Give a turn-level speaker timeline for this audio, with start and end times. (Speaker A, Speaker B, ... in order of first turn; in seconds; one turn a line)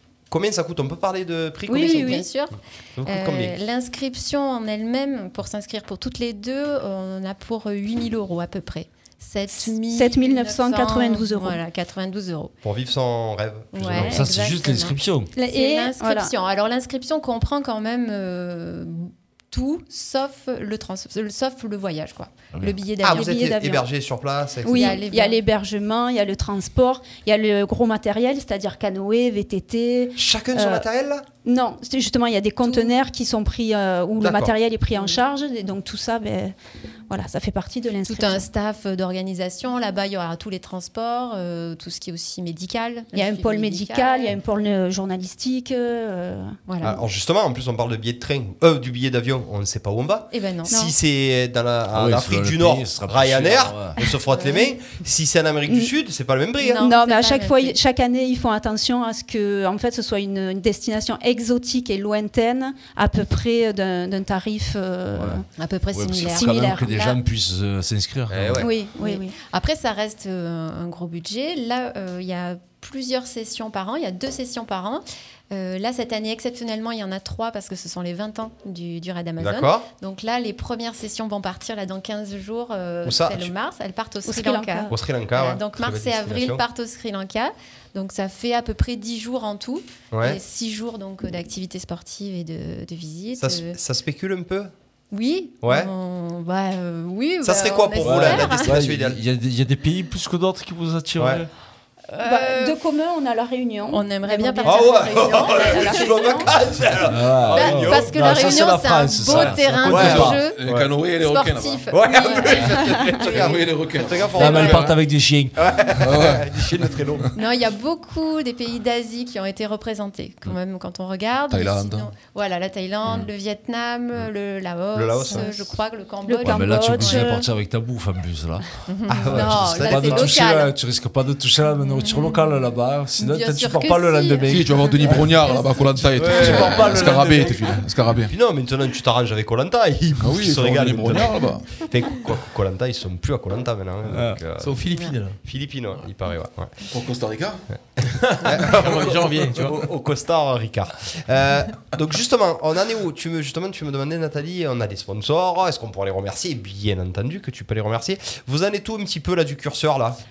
Speaker A: 0.3-2.2
Speaker B: 1.7-2.2
Speaker C: 1.7-12.5
Speaker A: 3.0-3.6
Speaker B: 9.6-11.6
Speaker A: 12.6-14.1
Speaker C: 13.7-23.6
Speaker D: 13.9-15.3
Speaker B: 15.3-16.3
Speaker A: 23.0-25.0
Speaker B: 23.1-23.9
Speaker B: 24.6-30.8
Speaker C: 24.7-25.4
Speaker A: 30.2-31.2
Speaker B: 31.4-36.5
Speaker C: 32.6-33.0
Speaker A: 34.2-34.5
Speaker C: 34.9-35.2
Speaker B: 37.1-38.5
Speaker C: 38.0-44.3
Speaker B: 43.1-46.6
Speaker C: 46.7-47.0
Speaker A: 46.8-56.8
Speaker C: 50.3-50.8
Speaker D: 51.9-54.0
Speaker C: 54.3-54.7
Speaker C: 56.6-57.8
Speaker B: 56.7-65.5
Speaker D: 65.1-68.7
Speaker C: 65.5-67.2
Speaker B: 66.3-66.9
Speaker A: 68.3-68.7
Speaker B: 68.6-69.3
Speaker C: 69.0-93.8
Speaker A: 79.4-79.9
Speaker A: 83.0-83.5
Speaker B: 84.2-84.9
Speaker A: 84.9-86.6
Speaker A: 90.1-90.4
Speaker A: 93.4-94.7
Speaker C: 95.1-98.8
Speaker A: 95.6-95.9
Speaker A: 97.4-99.2
Speaker D: 98.0-101.5
Speaker A: 101.2-101.5
Speaker C: 102.1-102.8
Speaker B: 102.2-106.5
Speaker C: 103.9-106.4
Speaker A: 104.6-108.7
Speaker D: 107.0-110.4
Speaker C: 107.5-110.6
Speaker A: 109.3-110.9
Speaker E: 109.8-111.9
Speaker C: 111.1-113.6
Speaker A: 111.9-115.0
Speaker E: 112.4-115.0
Speaker D: 114.3-115.5
Speaker C: 114.4-114.7
Speaker A: 115.5-117.3
Speaker E: 115.9-117.3
Speaker C: 117.3-127.4
Speaker E: 121.5-122.1
Speaker A: 124.9-125.5
Speaker B: 126.2-127.4
Speaker D: 126.5-128.7
Speaker C: 128.9-130.7
Speaker A: 129.1-130.3
Speaker D: 129.2-137.8
Speaker C: 131.9-132.4
Speaker C: 133.2-136.1
Speaker E: 134.5-138.3
Speaker A: 136.2-137.3
Speaker A: 138.3-144.8
Speaker E: 140.2-141.7
Speaker D: 144.1-144.4
Speaker F: 144.6-145.4
Speaker A: 145.4-146.7
Speaker E: 146.9-147.6
Speaker F: 148.3-149.8
Speaker A: 148.4-160.2
Speaker E: 148.7-149.3